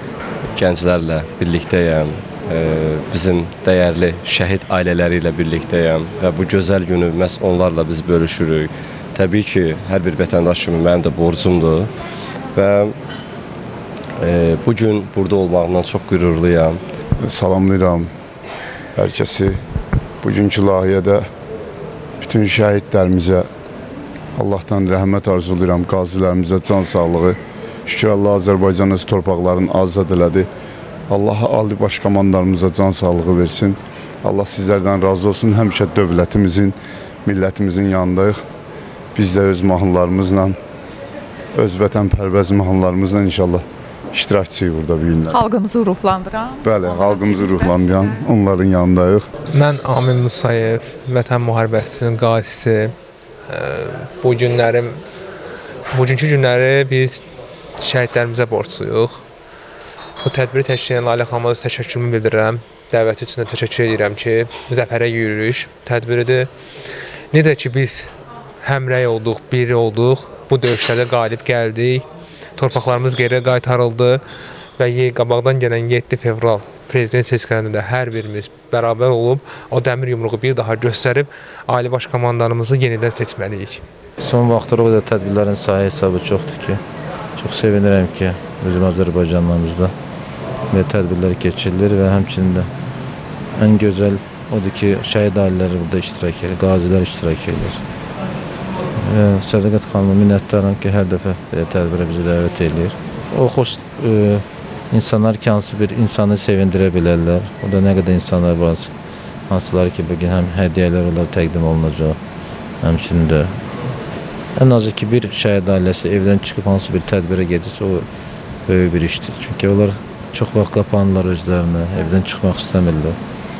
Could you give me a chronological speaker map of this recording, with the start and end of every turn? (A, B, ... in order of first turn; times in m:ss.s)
0:00.5-0:11.9 A
0:12.5-0:13.0 A
0:14.2-0:16.8 A
0:17.3-0:18.1 B
0:19.0-0:19.5 B
0:20.2-0:21.2 B
0:22.2-0:23.4 B
0:24.4-0:30.5 B
0:31.1-0:36.7 B
0:37.2-0:38.4 B
0:39.2-0:40.5 B
0:41.6-0:45.4 B
0:45.3-0:48.2 C
0:46.6-0:49.3 B
0:49.5-0:52.9 D
0:53.5-0:55.0 D
0:55.9-0:57.2 D
0:57.8-0:59.2 D
1:00.2-1:06.5 D
1:07.3-1:08.1 D
1:08.6-1:12.0 D
1:12.6-1:14.2 D
1:14.8-1:23.8 D
1:24.2-1:26.8 E
1:27.4-1:29.9 E
1:30.7-1:32.7 E
1:33.6-1:37.8 E
1:39.0-1:48.9 E
1:49.5-1:52.2 E
1:52.8-1:53.5 E
1:54.6-1:58.0 E
1:58.7-2:03.2 E